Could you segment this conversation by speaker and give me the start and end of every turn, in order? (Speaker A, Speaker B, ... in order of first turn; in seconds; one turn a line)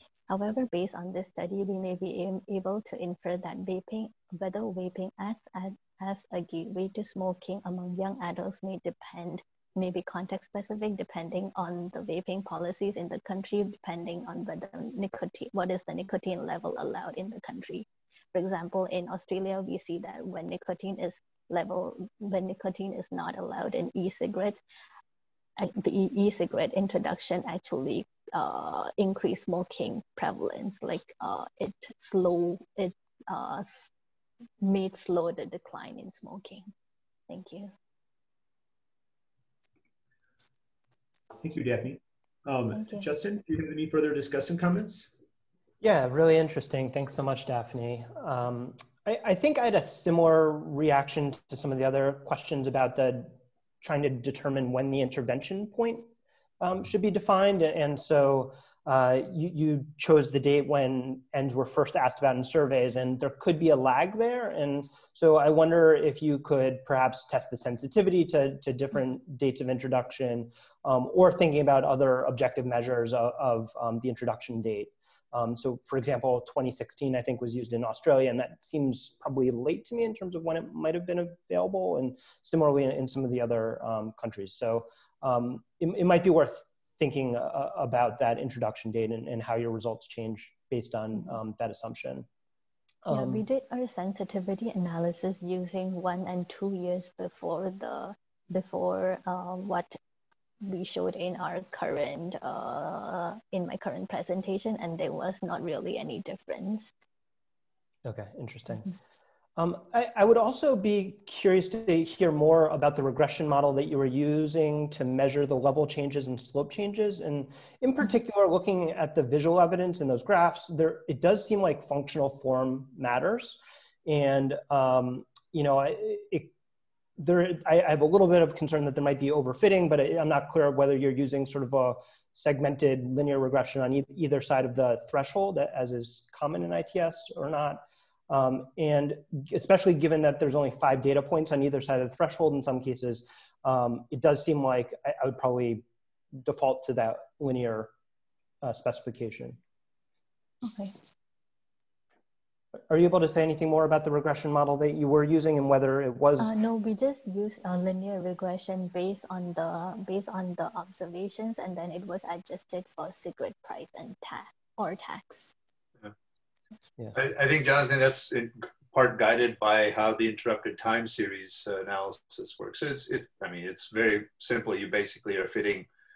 Speaker A: 0.3-24.6
Speaker A: 25.6-33.9
Speaker A: 34.6-36.7
Speaker A: 37.3-37.7
Speaker B: 41.4-45.1
Speaker A: 42.7-43.1
Speaker C: 45.8-56.1
Speaker C: 56.6-92.3
Speaker C: 93.1-93.5
Speaker A: 93.1-100.0
Speaker A: 100.6-106.9
Speaker C: 108.0-109.0
Speaker C: 109.6-126.5
Speaker C: 127.2-145.8
Speaker C: 146.4-147.9
Speaker C: 148.6-149.6
Speaker A: 150.6-150.9
Speaker C: 152.9-156.5
Speaker A: 156.4-165.5
Speaker D: 167.1-175.9